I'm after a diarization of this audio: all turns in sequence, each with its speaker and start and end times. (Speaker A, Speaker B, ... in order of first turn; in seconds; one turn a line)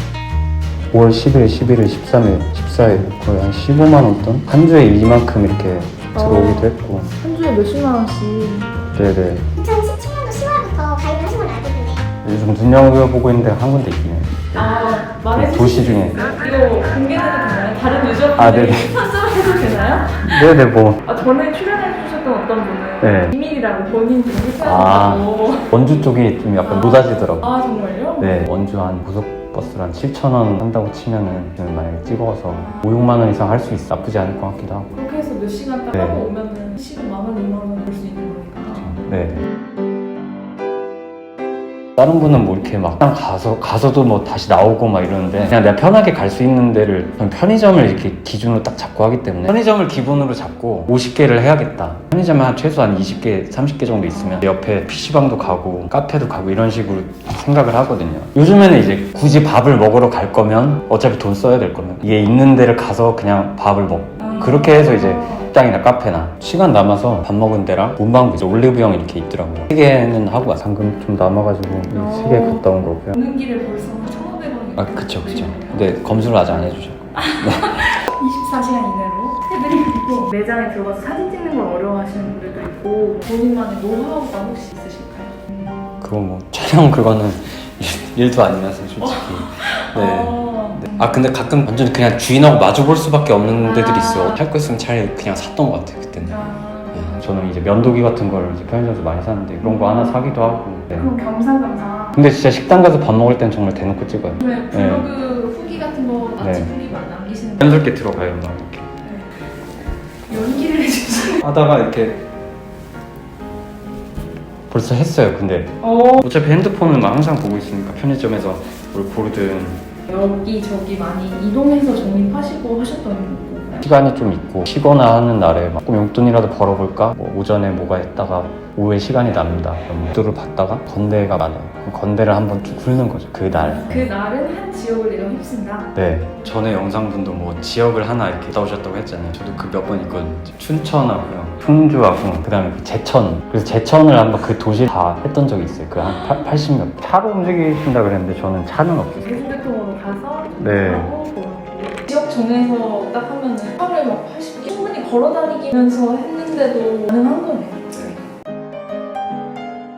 Speaker A: 0.9-7.1
Speaker B: 6.1-8.7
Speaker A: 8.9-9.5
Speaker C: 9.5-12.0
Speaker A: 12.2-14.7
Speaker B: 14.5-20.5
Speaker A: 15.3-16.3
Speaker A: 18.4-18.9
Speaker A: 20.2-21.1
Speaker B: 21.1-25.7
Speaker A: 23.0-23.4
Speaker A: 24.6-27.5
Speaker B: 26.6-28.3
Speaker A: 28.2-35.0
Speaker B: 32.6-32.9
Speaker B: 34.9-38.9
Speaker A: 35.9-36.3
Speaker A: 38.7-39.4
Speaker A: 42.0-73.2
Speaker B: 54.1-54.5
Speaker B: 64.2-65.5
Speaker B: 71.9-85.9
Speaker A: 74.8-78.1
Speaker A: 86.0-101.2
Speaker B: 89.0-91.1
Speaker B: 93.6-94.4
Speaker B: 96.3-97.2
Speaker B: 99.6-100.2
Speaker B: 101.0-102.2
Speaker A: 102.2-105.1
Speaker B: 104.4-107.9
Speaker A: 106.4-106.9
Speaker A: 107.6-108.9
Speaker B: 109.0-109.4
Speaker B: 110.3-111.4
Speaker A: 111.4-112.2
Speaker A: 114.7-119.8
Speaker B: 115.8-116.2
Speaker B: 120.1-123.8
Speaker A: 123.8-134.1
Speaker B: 133.5-135.9
Speaker A: 135.9-149.5
Speaker B: 149.2-158.2
Speaker A: 150.6-151.1